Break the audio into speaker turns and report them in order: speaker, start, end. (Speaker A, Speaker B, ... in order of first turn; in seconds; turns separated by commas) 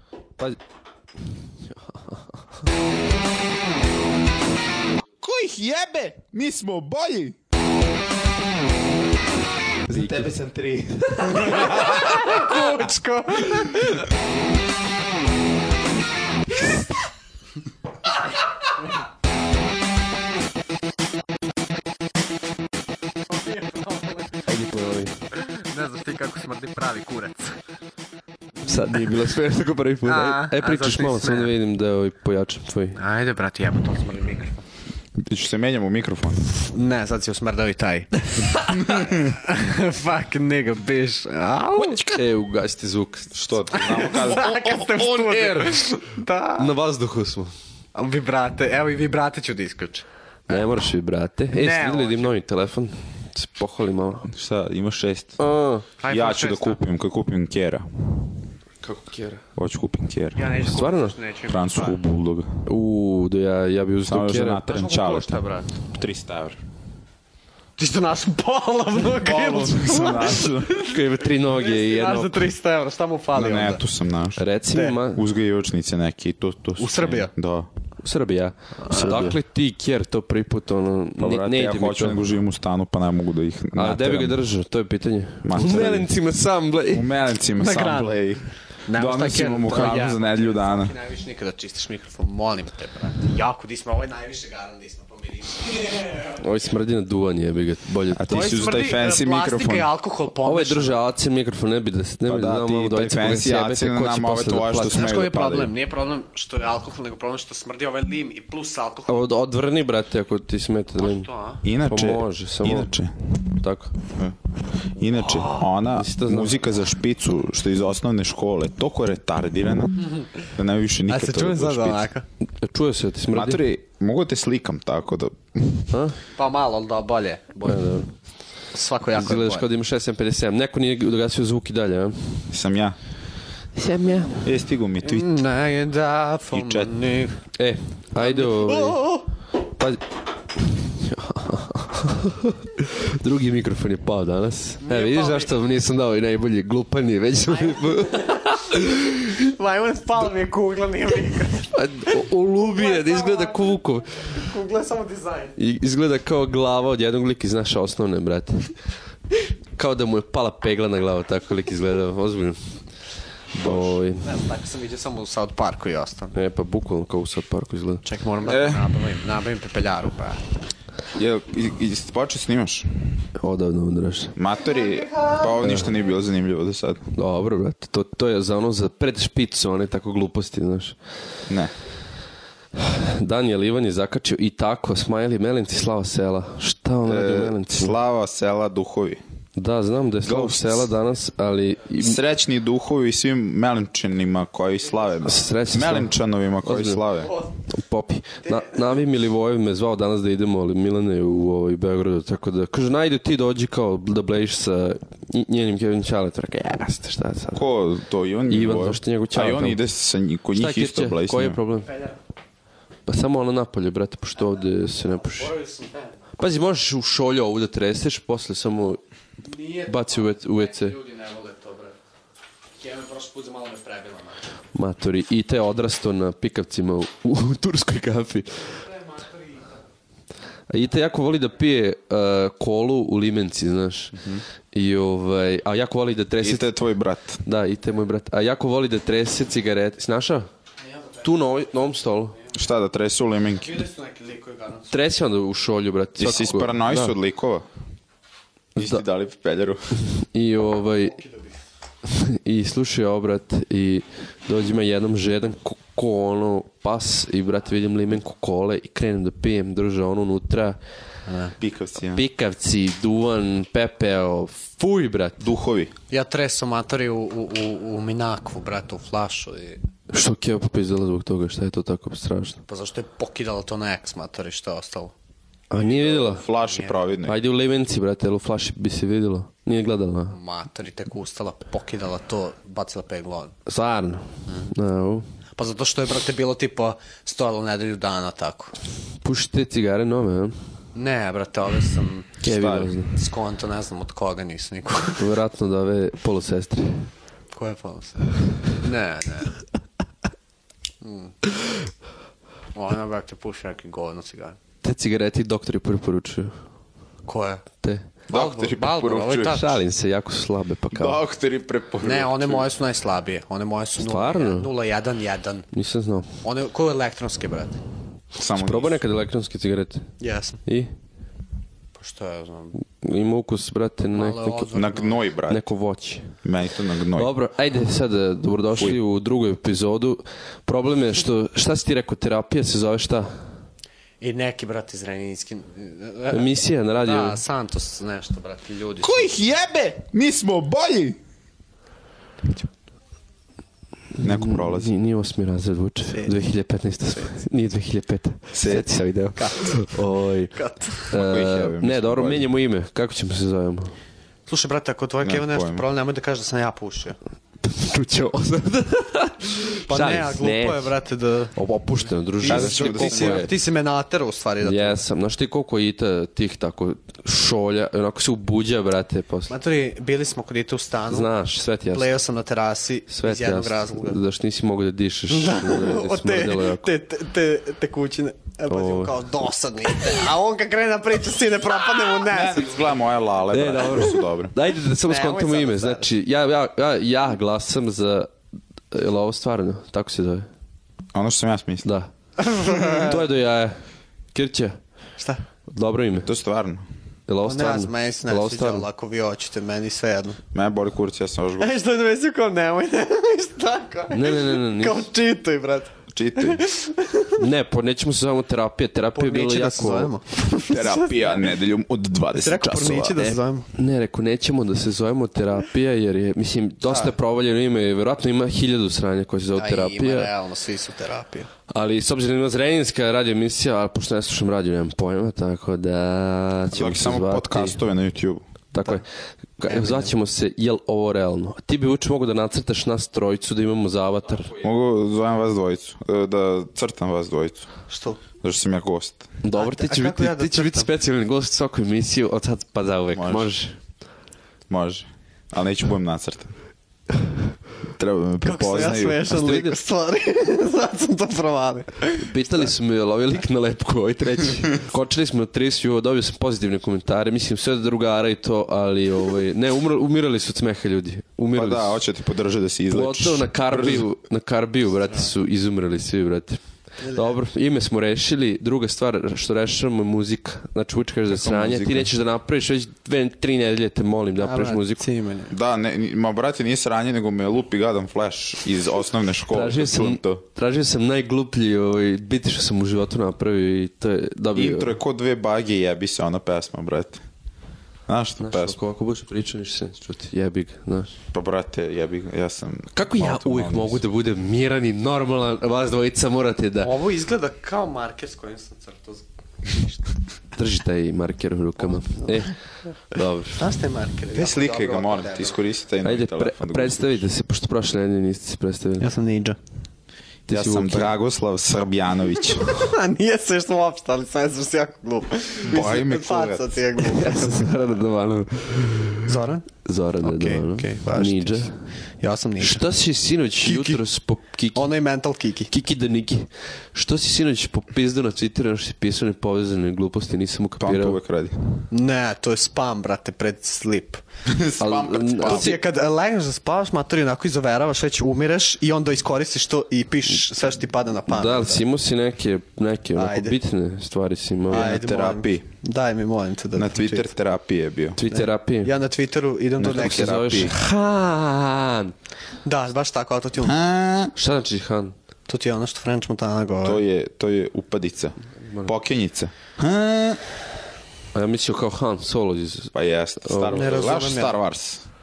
Speaker A: 1.9-2.2, Speaker B: 5.2-7.4, Speaker B: 9.9-12.5, Speaker A: 9.9-10.3, Speaker C: 11.3-14.1, Speaker C: 23.3-24.4, Speaker A: 24.5-25.1, Speaker C: 25.6-27.6, Speaker A: 28.6-33.0, Speaker C: 30.1-31.5, Speaker C: 33.0-34.6, Speaker B: 35.2-36.5, Speaker C: 36.6-42.0, Speaker B: 38.7-39.3, Speaker B: 41.8-42.2, Speaker A: 42.0-43.8, Speaker B: 43.3-45.7, Speaker C: 43.7-46.7, Speaker A: 46.6-47.5, Speaker C: 48.0-50.6, Speaker A: 50.5-54.3, Speaker C: 51.5-52.3, Speaker B: 54.3-55.4, Speaker A: 55.4-55.9, Speaker C: 56.0-56.8, Speaker B: 56.1-58.2, Speaker A: 58.8-59.4, Speaker B: 59.6-60.4, Speaker C: 60.4-62.0, Speaker A: 60.6-61.2, Speaker B: 61.5-62.7, Speaker A: 62.6-64.6, Speaker B: 64.0-66.6, Speaker C: 64.7-65.7, Speaker C: 67.8-73.8, Speaker B: 69.1-70.7, Speaker A: 70.7-72.5, Speaker B: 73.3-74.4, Speaker A: 74.4-75.2, Speaker C: 74.7-75.0, Speaker B: 75.1-77.7, Speaker C: 76.8-77.3, Speaker A: 78.0-82.2, Speaker C: 78.9-79.3, Speaker B: 81.2-84.4, Speaker A: 83.8-87.1, Speaker B: 85.4-86.1, Speaker B: 86.9-90.9, Speaker C: 87.6-88.2, Speaker C: 88.9-96.4, Speaker A: 96.4-98.6, Speaker B: 98.1-99.9, Speaker C: 98.3-101.0, Speaker A: 100.4-105.0, Speaker B: 102.2-105.7, Speaker C: 104.8-109.2, Speaker A: 109.1-111.3, Speaker C: 111.0-111.6, Speaker B: 111.6-113.5, Speaker A: 111.9-112.9, Speaker A: 113.6-114.0, Speaker B: 114.2-122.1, Speaker C: 115.2-115.6, Speaker A: 115.9-116.6, Speaker C: 121.1-122.2, Speaker A: 122.6-123.6, Speaker B: 123.3-125.9, Speaker A: 125.9-126.2, Speaker C: 126.4-127.8, Speaker A: 127.6-128.1, Speaker C: 128.7-129.7, Speaker A: 129.2-132.5, Speaker B: 132.5-133.0, Speaker A: 133.8-134.5, Speaker B: 134.4-135.3, Speaker C: 135.0-137.4, Speaker B: 136.5-136.9, Speaker A: 137.6-139.2, Speaker C: 138.2-139.2, Speaker A: 139.8-140.0, Speaker A: 140.7-149.3, Speaker C: 144.8-145.5, Speaker C: 147.5-155.6, Speaker A: 151.7-154.2, Speaker A: 155.6-158.7, Speaker A: 159.8-162.7, Speaker B: 163.5-164.0, Speaker A: 163.6-164.3, Speaker C: 164.2-166.3, Speaker A: 166.3-168.0, Speaker C: 168.1-170.4, Speaker B: 168.4-168.9, Speaker B: 171.1-173.3, Speaker A: 173.4-174.3, Speaker B: 174.4-177.1, Speaker A: 175.6-175.9, Speaker A: 177.2-181.0, Speaker B: 181.5-181.7, Speaker A: 182.8-187.9, Speaker B: 187.1-189.2, Speaker A: 189.6-192.2, Speaker B: 190.2-190.9, Speaker B: 192.0-197.3, Speaker A: 195.2-196.1, Speaker A: 196.7-197.0, Speaker A: 197.7-207.7, Speaker C: 198.5-198.8, Speaker B: 207.5-211.6, Speaker A: 208.5-209.8, Speaker A: 210.5-211.9, Speaker C: 211.9-212.2, Speaker A: 213.1-215.5, Speaker C: 215.1-216.2, Speaker A: 216.4-219.0, Speaker C: 219.4-221.9, Speaker A: 219.8-221.0, Speaker C: 222.8-224.4, Speaker A: 224.8-228.8, Speaker C: 228.9-229.6, Speaker A: 230.7-234.2, Speaker B: 234.2-234.4, Speaker A: 234.7-236.7, Speaker B: 236.4-237.4, Speaker A: 237.4-240.5, Speaker C: 240.9-241.3, Speaker A: 241.2-242.4, Speaker B: 242.5-243.8, Speaker C: 243.6-244.9, Speaker A: 244.9-247.2, Speaker B: 246.2-247.7, Speaker B: 248.8-249.9, Speaker A: 250.0-251.2, Speaker C: 251.1-251.5, Speaker A: 252.1-260.8, Speaker C: 261.3-261.6, Speaker B: 261.6-262.2, Speaker A: 262.1-265.5, Speaker B: 265.4-265.9, Speaker C: 266.1-269.8, Speaker A: 270.1-272.6, Speaker C: 272.7-275.1, Speaker A: 275.7-276.4, Speaker B: 275.8-277.4, Speaker C: 275.9-276.9, Speaker A: 277.2-280.4, Speaker C: 280.3-283.5, Speaker A: 283.7-285.3, Speaker C: 285.6-288.7, Speaker A: 289.2-290.6, Speaker C: 290.9-292.4, Speaker A: 292.4-293.2, Speaker B: 292.5-292.9, Speaker C: 293.1-295.2, Speaker A: 295.2-297.1, Speaker C: 297.5-299.5, Speaker C: 301.0-301.4, Speaker C: 302.8-304.6, Speaker A: 304.8-306.5, Speaker C: 307.3-307.6, Speaker A: 307.8-308.1, Speaker B: 308.3-309.6, Speaker C: 308.3-309.8, Speaker A: 309.4-311.2, Speaker B: 310.9-312.7, Speaker C: 312.0-315.7, Speaker A: 314.0-314.7, Speaker A: 315.7-316.3, Speaker C: 316.4-317.8, Speaker B: 318.4-319.0, Speaker A: 318.5-320.1, Speaker C: 320.2-320.6, Speaker A: 320.7-320.9, Speaker C: 322.0-322.8, Speaker A: 323.0-324.8, Speaker C: 324.1-325.2, Speaker B: 324.7-325.7, Speaker A: 325.5-326.3, Speaker B: 326.4-327.3, Speaker A: 327.2-333.4, Speaker C: 334.2-339.3, Speaker A: 336.3-337.4, Speaker B: 339.0-341.2, Speaker A: 344.2-350.5, Speaker B: 344.2-344.9, Speaker B: 348.5-348.9, Speaker C: 349.4-349.9, Speaker C: 350.5-351.1, Speaker A: 351.1-353.9, Speaker B: 351.1-352.5, Speaker C: 354.5-357.2, Speaker B: 355.2-355.9, Speaker A: 357.6-360.9, Speaker C: 359.9-361.6, Speaker A: 361.6-363.5, Speaker C: 362.4-365.0, Speaker B: 362.4-363.5, Speaker A: 364.6-369.5, Speaker C: 369.5-371.3, Speaker A: 371.1-372.1, Speaker C: 371.9-374.2, Speaker A: 373.1-376.9, Speaker C: 375.3-382.8, Speaker A: 378.7-379.2, Speaker B: 382.3-384.5, Speaker A: 383.5-388.3, Speaker C: 384.9-386.1, Speaker A: 388.9-390.5, Speaker B: 391.1-391.9, Speaker A: 391.8-393.8, Speaker C: 392.4-393.2, Speaker A: 394.3-394.8, Speaker A: 395.7-396.3, Speaker B: 396.3-396.8, Speaker A: 397.3-398.9, Speaker C: 397.4-400.4, Speaker B: 400.5-401.7, Speaker C: 401.6-407.4, Speaker A: 404.1-405.0, Speaker B: 406.1-406.6, Speaker A: 407.4-410.1, Speaker C: 409.1-411.1, Speaker B: 410.7-413.2, Speaker C: 412.4-413.7, Speaker A: 413.2-420.3, Speaker C: 416.9-417.1, Speaker C: 419.6-421.5, Speaker A: 421.7-427.8, Speaker B: 426.7-428.4, Speaker A: 428.7-429.0, Speaker A: 429.6-434.6, Speaker C: 429.7-430.1, Speaker B: 434.6-437.7, Speaker C: 437.9-438.2, Speaker B: 438.4-439.3, Speaker A: 439.4-443.8, Speaker C: 439.5-440.9, Speaker B: 443.1-443.5, Speaker B: 444.7-446.6, Speaker B: 448.0-449.3, Speaker C: 448.4-452.6, Speaker A: 449.3-449.8, Speaker A: 452.2-462.0, Speaker B: 461.5-464.1, Speaker A: 462.9-475.0, Speaker C: 467.0-467.4, Speaker B: 471.3-472.1, Speaker C: 474.4-475.5, Speaker B: 475.5-480.4, Speaker A: 479.5-484.9, Speaker B: 484.6-487.2, Speaker B: 488.1-488.8, Speaker A: 488.4-491.2, Speaker B: 491.3-494.0, Speaker A: 492.9-496.9, Speaker C: 496.8-500.1, Speaker A: 500.6-502.6, Speaker C: 502.0-502.3, Speaker A: 503.1-503.6, Speaker C: 503.6-505.6, Speaker B: 504.3-507.2, Speaker A: 506.0-509.1, Speaker C: 509.0-509.6, Speaker A: 510.5-511.1, Speaker B: 510.5-512.7, Speaker C: 512.6-517.7, Speaker B: 515.6-516.8, Speaker A: 517.1-519.3, Speaker C: 519.2-519.7, Speaker A: 519.9-521.7, Speaker C: 520.2-522.8, Speaker A: 522.6-524.9, Speaker C: 523.6-524.0, Speaker C: 524.8-525.7, Speaker A: 525.7-531.2, Speaker B: 530.8-531.8, Speaker C: 531.9-534.2, Speaker B: 534.5-535.8, Speaker A: 534.8-535.8, Speaker C: 535.4-541.8, Speaker A: 541.3-544.9, Speaker C: 543.1-543.6, Speaker C: 544.7-547.3, Speaker B: 544.7-545.6, Speaker B: 546.7-548.2, Speaker A: 548.2-548.9, Speaker C: 548.3-550.4, Speaker B: 549.8-550.8, Speaker A: 549.9-552.1, Speaker C: 552.6-553.8, Speaker B: 553.6-554.3, Speaker A: 554.4-555.1, Speaker C: 555.5-557.0, Speaker B: 556.8-560.4, Speaker A: 558.6-558.9, Speaker A: 561.3-563.9, Speaker B: 562.9-565.1, Speaker C: 563.7-564.6